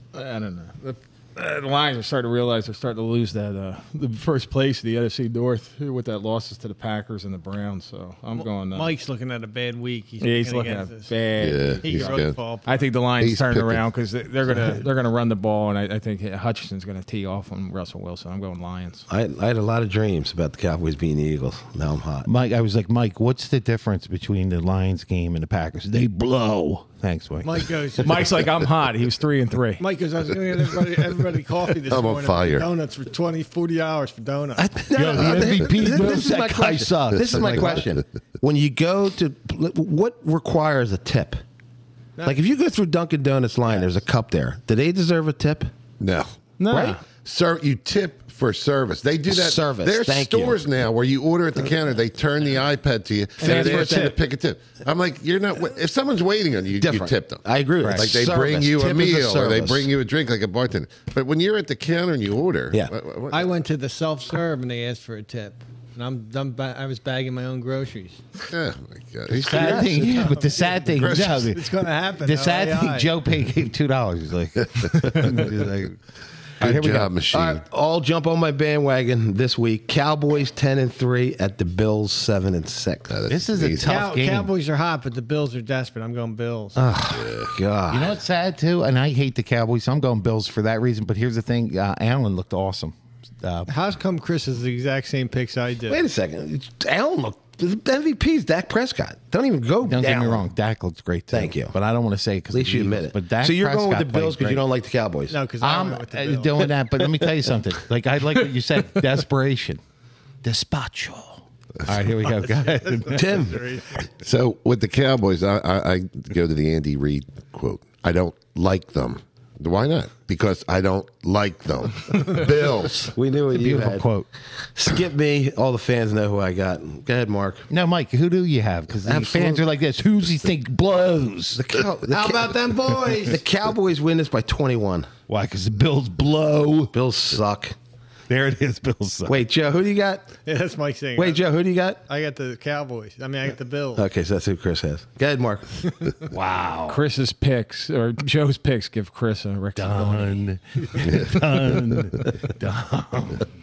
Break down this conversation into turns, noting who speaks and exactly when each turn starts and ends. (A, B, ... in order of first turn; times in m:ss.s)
0:00.1-0:08.9 A
0:08.3-0:11.1 B
0:10.2-0:19.1 A
0:11.4-0:12.4 C
0:11.8-0:12.9 B
0:13.2-0:13.8 C
0:19.1-0:22.3 D
0:22.3-0:27.7 E
0:27.4-0:28.4 B
0:28.0-0:29.8 A
0:29.8-0:34.8 B
0:31.9-0:32.7 C
0:34.6-0:41.4 D
0:34.9-0:37.9 E
0:42.2-0:45.7 D
0:46.0-0:46.3 C
0:46.6-0:47.0 A
0:46.7-0:47.0 D
0:47.2-1:03.5 C
0:49.3-0:50.6 D
0:53.4-0:54.2 A
0:53.4-0:54.1 D
0:53.5-0:54.1 B
0:56.8-0:59.9 D
0:57.8-0:58.1 E
1:03.3-1:08.2 B
1:08.5-1:10.3 C
1:09.4-1:16.0 E
1:09.5-1:13.1 B
1:10.9-1:11.5 C
1:16.6-1:17.1 E
1:16.6-1:17.6 C
1:17.3-1:23.2 D
1:23.1-1:24.0 C
1:23.3-1:24.5 E
1:23.8-1:26.8 B
1:26.8-1:27.0 E
1:27.0-1:28.2 D
1:27.1-1:27.5 C
1:27.9-1:33.7 E
1:33.7-1:36.0 B
1:35.9-1:40.5 D
1:39.8-1:44.6 E
1:41.3-1:41.7 D
1:42.5-1:45.4 D
1:45.3-1:46.8 B
1:45.6-1:49.8 E
1:50.4-1:53.4 E
1:52.3-1:54.1 B
1:53.1-1:53.6 D
1:54.2-2:03.1 C
2:03.1-2:04.1 D
2:03.5-2:04.3 E
2:04.7-2:07.7 D
2:07.7-2:11.6 E
2:09.0-2:09.6 D
2:11.6-2:12.6 D
2:12.1-2:13.4 B
2:13.1-2:15.1 D
2:15.3-2:16.9 E
2:16.9-2:17.8 D
2:18.3-2:19.4 E
2:19.3-2:20.4 D
2:20.4-2:24.1 B
2:21.2-2:22.0 D
2:24.0-2:25.9 D
2:26.3-2:27.0 E
2:26.9-2:30.4 A
2:29.8-2:33.5 E
2:31.1-2:31.4 C